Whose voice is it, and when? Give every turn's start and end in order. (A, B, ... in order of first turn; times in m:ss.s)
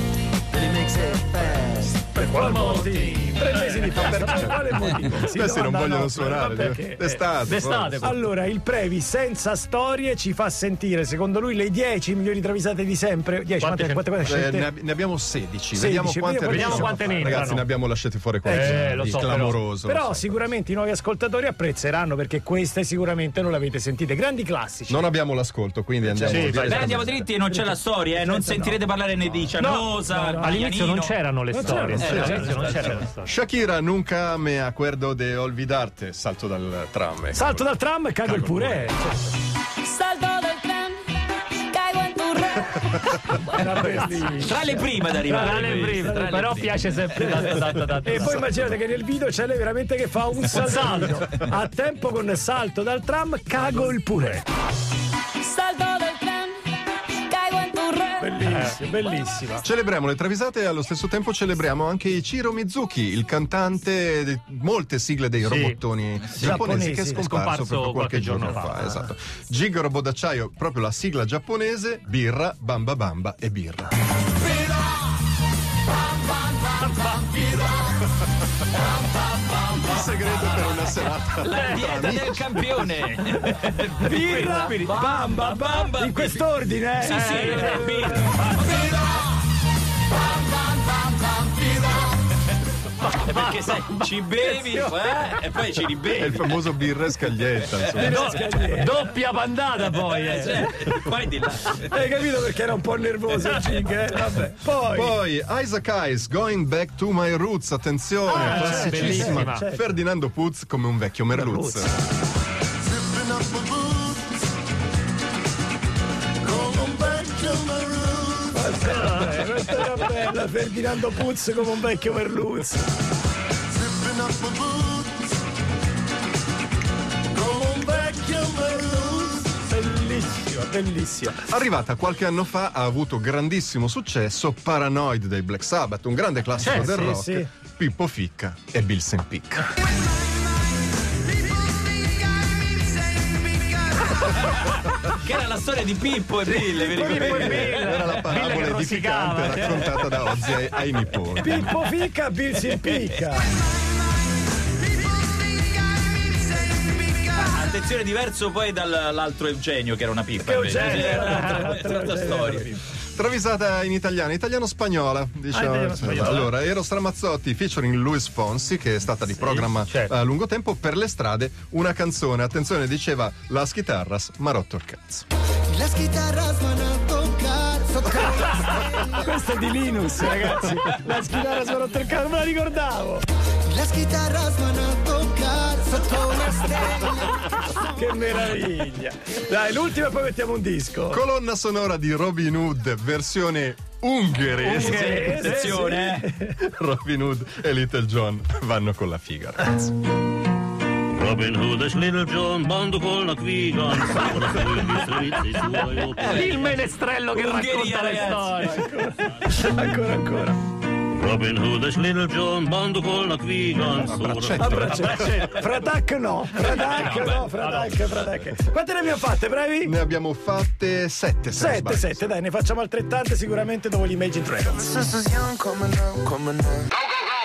0:00.6-0:01.8 A
0:02.1-0:07.2 B
0:02.2-0:03.6 C
0:03.9-0:08.1 D
0:07.4-0:08.2 C
0:08.0-0:14.7 B
0:13.6-0:14.1 C
0:14.2-0:20.3 D
0:15.7-0:17.5 B
0:16.5-0:17.6 C
0:18.4-0:19.2 B
0:18.5-0:19.6 C
0:19.8-0:25.0 B
0:24.9-0:27.2 D
0:26.1-0:26.5 B
0:26.2-0:27.0 C
0:26.3-0:31.2 E
0:27.5-0:28.8 B
0:29.6-0:30.8 B
0:30.4-0:33.3 C
0:31.5-0:32.7 B
0:31.8-0:33.0 E
0:32.0-0:37.6 D
0:37.3-0:39.3 B
0:38.3-0:38.6 D
0:39.8-0:44.3 F
0:43.3-0:54.4 B
0:44.3-0:47.6 E
0:45.3-0:48.6 C
0:50.5-0:51.2 C
0:55.4-0:58.4 F
0:58.2-0:59.6 B
0:58.5-0:58.8 C
0:59.6-1:13.9 D
1:05.4-1:05.8 C
1:06.2-1:06.6 E
1:06.4-1:07.3 B
1:07.1-1:08.8 C
1:17.2-1:17.5 E
1:18.8-1:19.9 E
1:19.8-1:22.5 D
1:21.4-1:29.0 E
1:24.0-1:28.4 B
1:27.2-1:28.3 C
1:31.3-1:31.9 E
1:33.0-1:38.6 E
1:34.5-1:35.0 B
1:36.2-1:38.2 D
1:38.0-1:39.1 B
1:38.1-1:40.6 C
1:40.0-1:42.0 E
1:41.8-1:45.2 B
1:44.7-1:51.9 D
1:48.2-1:49.8 B
1:48.3-1:49.6 C
1:51.4-1:51.8 B
1:56.4-1:57.7 B
1:58.4-2:02.8 B
2:04.0-2:05.0 A
2:07.3-2:11.5 B
2:11.4-2:19.7 D
2:16.6-2:17.0 C
2:16.7-2:17.5 B
2:24.2-2:28.7 E
2:26.7-2:27.6 B
2:27.0-2:30.0 C
2:27.1-2:31.8 D
2:31.4-2:33.5 B
2:37.3-2:42.7 E
2:40.4-2:42.8 B
2:40.8-2:41.8 C
2:43.2-2:55.2 D
2:45.5-2:46.5 B
2:49.5-2:50.1 C
2:55.7-2:59.2 A
2:59.0-3:03.2 B
3:03.6-3:07.4 A
3:07.7-3:11.2 B
3:11.1-3:15.3 D
3:14.6-3:16.2 E
3:14.7-3:16.6 B
3:15.4-3:15.8 C
3:16.5-3:19.9 D
3:21.1-3:26.5 G
3:26.2-3:26.6 E
3:26.2-3:28.8 C
3:27.3-3:28.7 E
3:28.6-3:30.6 B
3:31.1-3:35.0 G
3:34.0-3:35.4 D
3:34.6-3:39.9 B
3:35.1-3:35.6 C
3:36.6-3:37.5 E
3:37.4-3:37.9 C
3:39.8-3:42.2 D
3:41.5-3:45.2 B
3:45.1-3:46.9 A